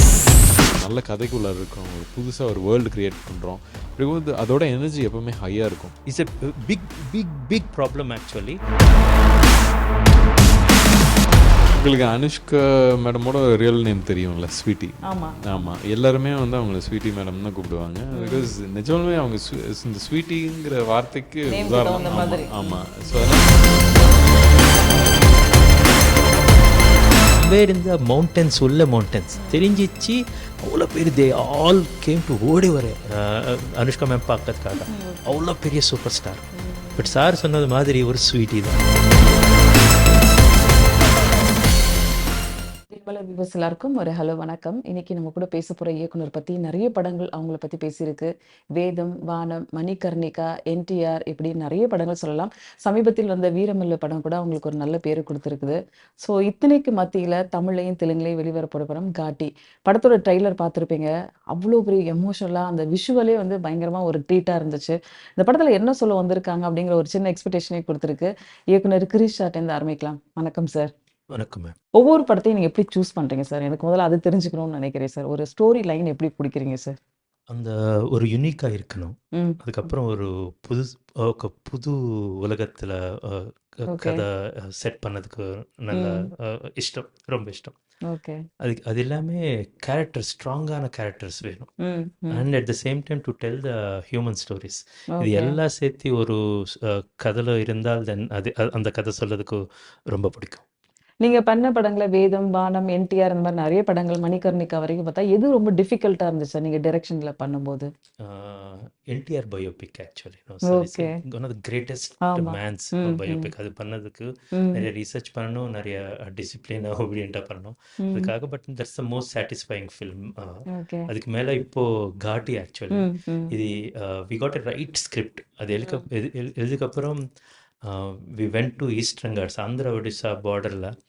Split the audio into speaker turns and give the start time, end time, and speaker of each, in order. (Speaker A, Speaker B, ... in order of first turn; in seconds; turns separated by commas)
Speaker A: 0.8-5.9, Speaker B: 6.1-8.6, Speaker A: 11.7-23.9, Speaker C: 15.1-15.7, Speaker C: 18.1-18.5, Speaker C: 21.5-22.8, Speaker B: 27.4-36.4, Speaker C: 29.4-29.6, Speaker C: 34.9-35.4, Speaker C: 36.6-37.1, Speaker B: 37.0-38.8, Speaker C: 42.9-70.9, Speaker B: 71.3-71.7, Speaker C: 71.9-77.0, Speaker B: 77.5-87.7, Speaker C: 79.3-79.6, Speaker C: 83.9-84.2, Speaker C: 85.9-86.2, Speaker C: 88.1-88.4, Speaker B: 88.6-91.7, Speaker C: 91.8-92.4, Speaker B: 92.3-100.6, Speaker C: 95.1-95.5, Speaker C: 101.2-107.9, Speaker B: 108.2-127.2, Speaker C: 110.6-111.1, Speaker C: 112.2-113.5, Speaker C: 114.5-114.8, Speaker C: 118.0-118.3, Speaker C: 120.7-121.1, Speaker C: 122.9-123.5, Speaker B: 127.8-130.9